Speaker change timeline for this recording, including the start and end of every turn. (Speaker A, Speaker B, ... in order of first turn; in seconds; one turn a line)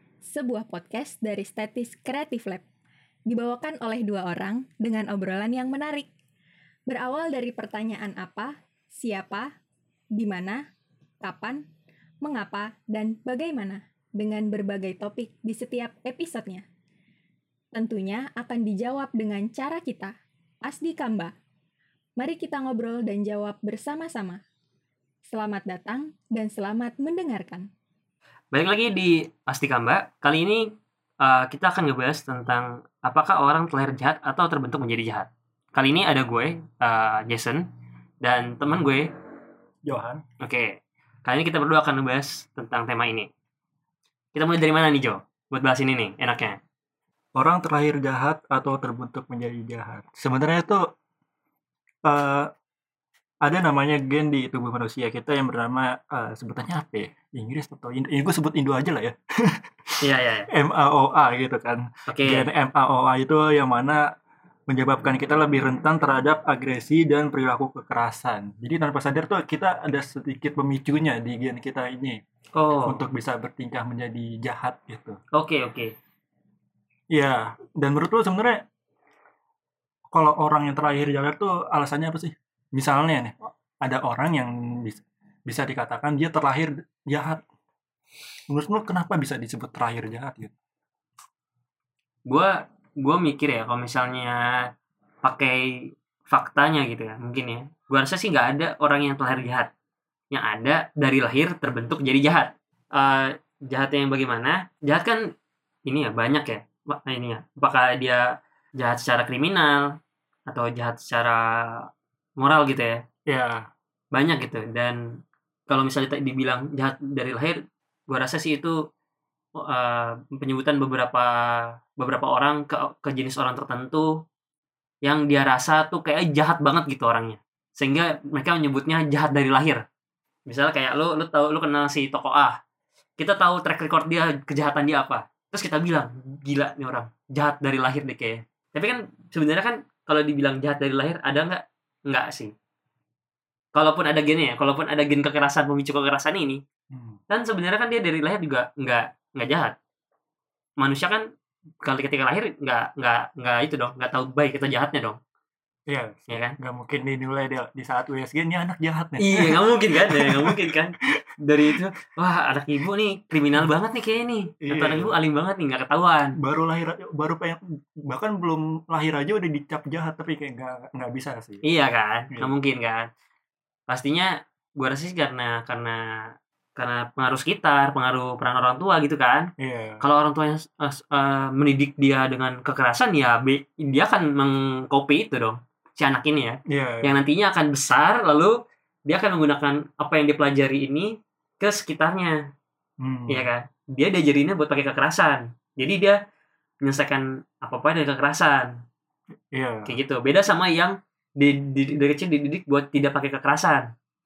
Speaker A: 0.3-2.6
Speaker A: 3.3-6.1
Speaker A: 6.9-9.5
Speaker A: 10.2-10.6
Speaker A: 11.2-11.6
Speaker A: 12.2-16.7
Speaker A: 17.7-21.3
Speaker A: 22.2-24.4
Speaker A: 25.3-27.7
Speaker B: 28.5-37.7
Speaker B: 38.2-39.1
Speaker C: 39.9-40.2
Speaker B: 40.4-43.3
Speaker B: 44.4-46.6
Speaker C: 47.4-50.8
Speaker C: 52.0-52.5
Speaker C: 53.4-60.0
Speaker B: 60.0-60.5
Speaker C: 60.5-64.0
Speaker B: 62.1-62.5
Speaker C: 64.7-72.2
Speaker B: 72.5-73.0
Speaker C: 72.8-75.2
Speaker B: 75.3-75.9
Speaker C: 77.1-78.6
Speaker C: 80.1-87.4
Speaker C: 88.5-90.5
Speaker B: 92.3-94.7
Speaker B: 95.2-95.7
Speaker B: 96.3-99.7
Speaker B: 100.3-105.2
Speaker B: 105.9-108.2
Speaker B: 108.8-109.9
Speaker B: 110.5-111.9
Speaker B: 112.4-113.0
Speaker C: 113.3-113.7
Speaker B: 114.1-115.0
Speaker B: 115.7-117.6
Speaker B: 118.1-118.8
Speaker B: 119.6-124.1
Speaker B: 125.0-129.8
Speaker B: 130.5-132.6
Speaker B: 133.2-142.5
Speaker B: 143.8-146.6
Speaker C: 146.9-147.2
Speaker B: 147.3-149.8
Speaker B: 150.8-151.2
Speaker B: 151.8-155.2
Speaker C: 155.9-161.8
Speaker B: 156.3-156.6
Speaker B: 159.2-166.4
Speaker C: 164.7-165.2
Speaker C: 166.4-171.6
Speaker B: 171.6-173.1
Speaker B: 173.9-176.0
Speaker B: 176.8-179.5
Speaker C: 179.6-180.1
Speaker B: 180.0-188.5
Speaker C: 186.7-187.2
Speaker B: 189.1-192.4
Speaker C: 193.0-193.5
Speaker B: 193.3-196.2
Speaker B: 196.8-198.7
Speaker C: 199.5-200.0
Speaker B: 199.9-203.9